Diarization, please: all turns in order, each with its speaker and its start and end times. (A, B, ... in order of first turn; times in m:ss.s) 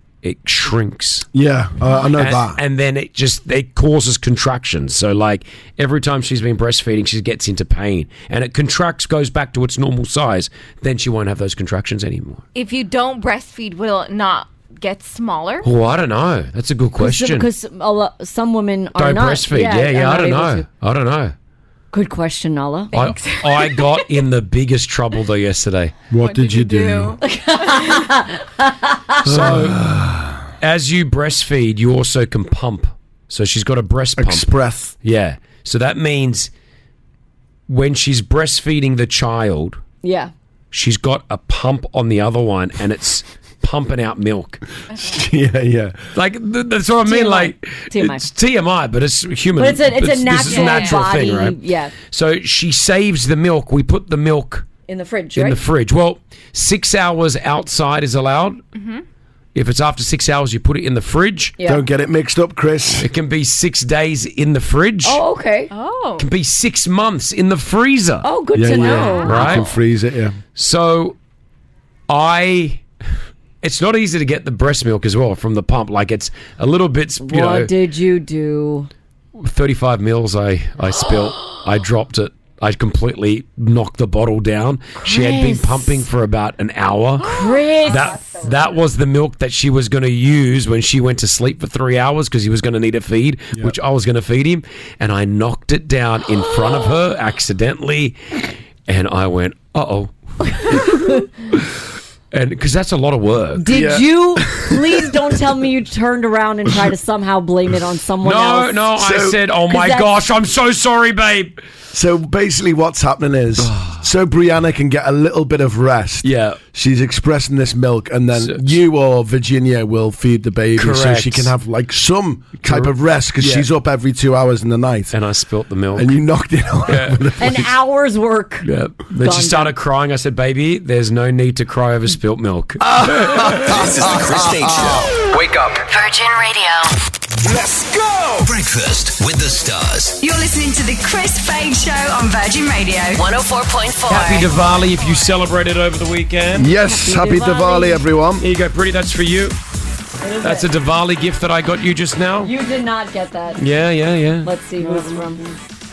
0:00.2-0:01.3 A
0:01.3-0:02.6 B
0:02.2-0:12.4 A
0:12.5-0:15.6 C
0:15.6-0:17.5 A
0:17.0-0:20.6 D
0:19.0-0:21.3 A
0:21.9-0:23.0 D
0:22.9-0:26.0 A
0:22.9-0:23.8 C
0:26.1-0:27.2 B
0:26.2-0:27.2 C
0:27.2-0:29.5 D
0:29.2-0:29.8 A
0:29.3-0:30.4 B
0:30.6-0:36.5 A
0:34.2-0:34.9 B
0:37.7-0:39.8 A
0:40.0-0:40.3 D
0:40.7-0:44.6 A
0:45.0-0:46.0 B
0:46.1-0:51.6 A
0:47.1-0:48.2 D
0:49.6-0:51.9 D
0:50.5-0:51.0 C
0:52.1-0:54.6 A
0:54.9-0:55.6 D
0:55.4-0:58.6 A
0:58.7-0:59.0 C
0:59.5-1:01.6 A
1:01.6-1:03.1 B
1:03.0-1:05.2 A
1:05.0-1:05.7 D
1:05.7-1:06.2 C
1:06.2-1:08.2 A
1:08.2-1:09.6 D
1:08.5-1:10.4 B
1:08.8-1:09.4 C
1:09.2-1:09.7 A
1:10.6-1:11.2 A
1:12.1-1:12.8 A
1:13.6-1:17.7 A
1:17.2-1:18.9 D
1:19.4-1:41.2 A
1:25.0-1:25.9 D
1:27.2-1:28.2 D
1:40.6-1:41.2 D
1:42.3-1:43.7 A
1:43.6-1:48.8 D
1:43.7-1:45.0 B
1:48.2-1:51.6 A
1:49.0-1:49.4 B
1:49.7-1:50.1 D
1:51.9-2:05.1 B
1:53.6-1:54.0 A
1:56.2-1:56.6 A
1:58.4-1:58.8 A
2:00.8-2:01.5 A
2:02.6-2:03.7 A
2:05.1-2:06.1 A
2:05.9-2:07.5 B
2:06.8-2:07.2 A
2:07.4-2:08.6 D
2:08.6-2:13.6 A
2:09.2-2:09.7 D
2:12.8-2:15.1 B
2:13.8-2:15.1 E
2:15.7-2:16.9 F
2:18.4-2:20.2 E
2:20.2-2:23.2 G
2:23.1-2:24.5 F
2:24.1-2:26.7 A
2:26.6-2:28.4 B
2:26.8-2:28.0 D
2:28.4-2:29.6 A
2:30.2-2:30.7 D
2:30.4-2:32.5 A
2:32.4-2:33.6 D
2:33.6-2:34.5 A
2:34.4-2:35.5 D